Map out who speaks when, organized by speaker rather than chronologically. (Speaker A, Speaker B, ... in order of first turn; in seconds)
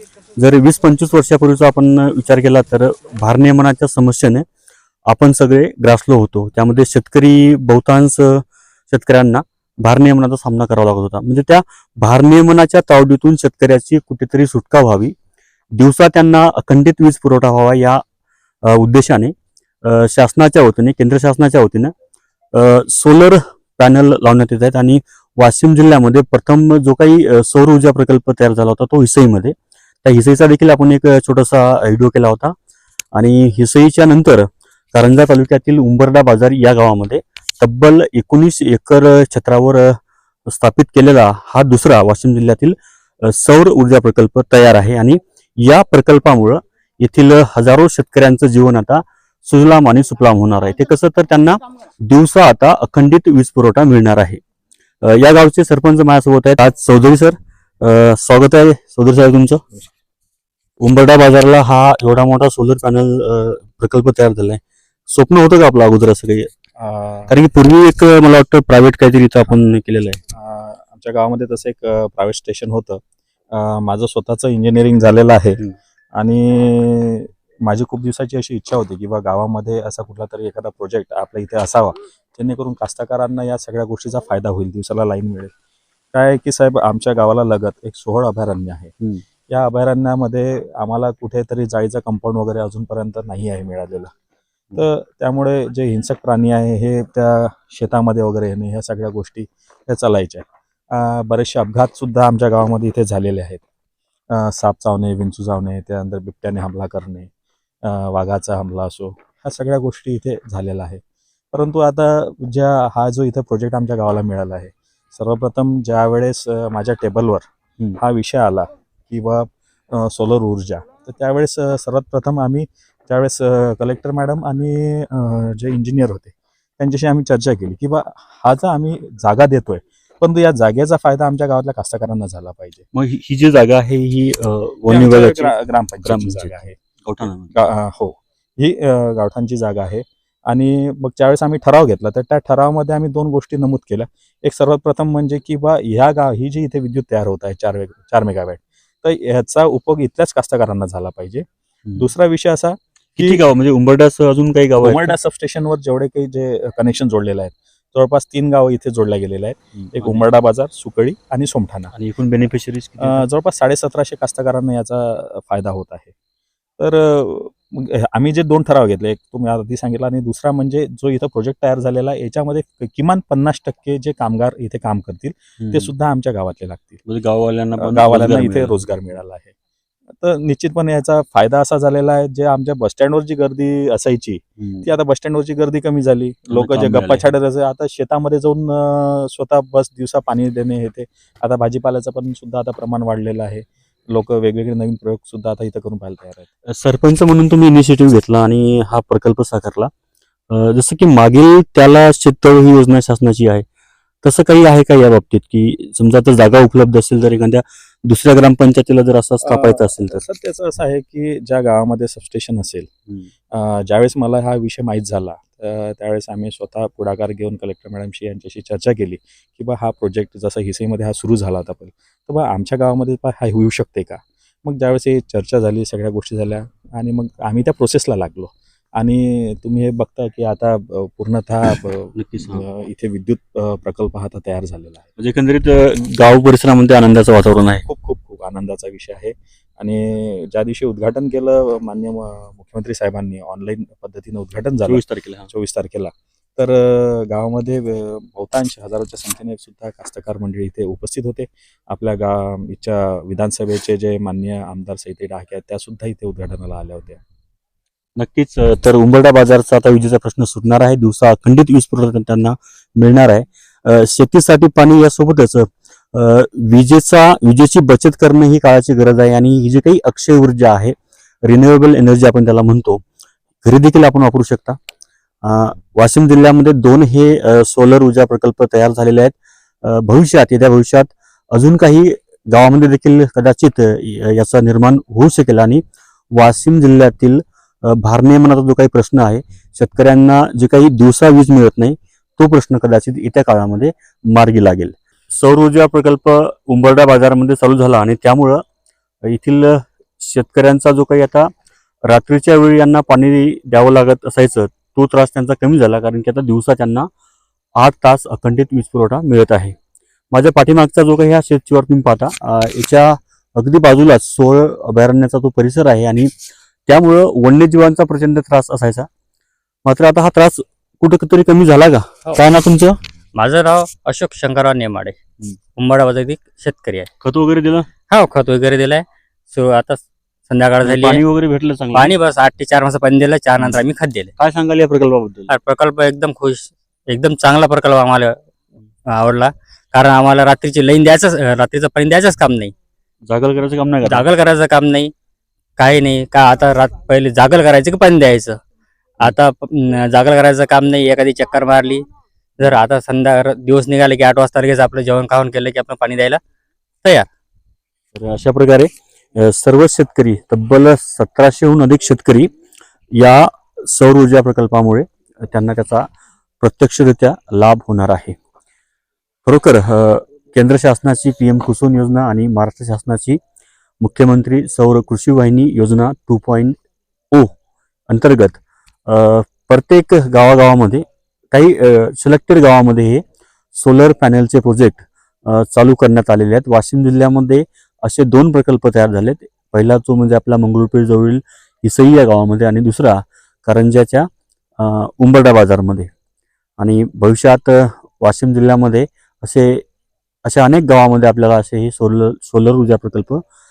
Speaker A: 0.3-4.5, 5.1-15.2, 15.7-18.0, 18.6-21.9, 22.5-32.5, 33.1-40.0, 40.5-54.4, 55.0-59.6, 60.8-66.5, 67.3-70.2, 132.9-135.5, 136.1-137.6, 151.9-152.1, 153.2-155.2, 159.8-160.3, 161.9-163.2, 175.6-175.9, 177.1-178.8, 184.6-184.9, 186.5-187.3, 196.7-199.9, 200.5-203.7, 204.2-210.2, 232.2-232.6, 235.2-237.8, 244.9-245.5, 258.2-273.0, 273.6-274.8, 275.4-285.8, 286.3-298.6, 299.2-301.5, 302.1-307.1, 307.8-309.8, 310.3-316.4, 316.9-319.1, 319.9-323.0, 327.2-327.9, 330.8-332.1, 334.4-335.5, 343.3-344.3, 358.1-362.5, 363.2-366.1, 366.6-368.4, 369.5-373.4, 374.0-376.8, 378.1-383.2, 383.8-394.3, 394.8-396.1, 396.8-399.8, 400.4-403.4
Speaker B: 66.8-67.3, 70.3-75.6, 76.1-85.5, 86.1-88.9, 89.5-94.1, 94.8-103.6, 104.3-107.3, 107.8-117.4, 118.0-132.8, 134.9-136.8, 137.5-151.5, 152.0-153.4, 154.8-161.9, 163.0-166.1, 166.8-177.0, 177.8-179.5, 180.2-196.5, 209.4-212.9, 213.5-235.1, 237.9-257.2
Speaker C: 323.4-325.2, 325.8-327.1, 328.1-331.2, 331.9-334.3, 335.5-338.3, 339.1-342.7, 344.1-345.1, 345.8-348.6, 349.2-352.1, 352.6-356.4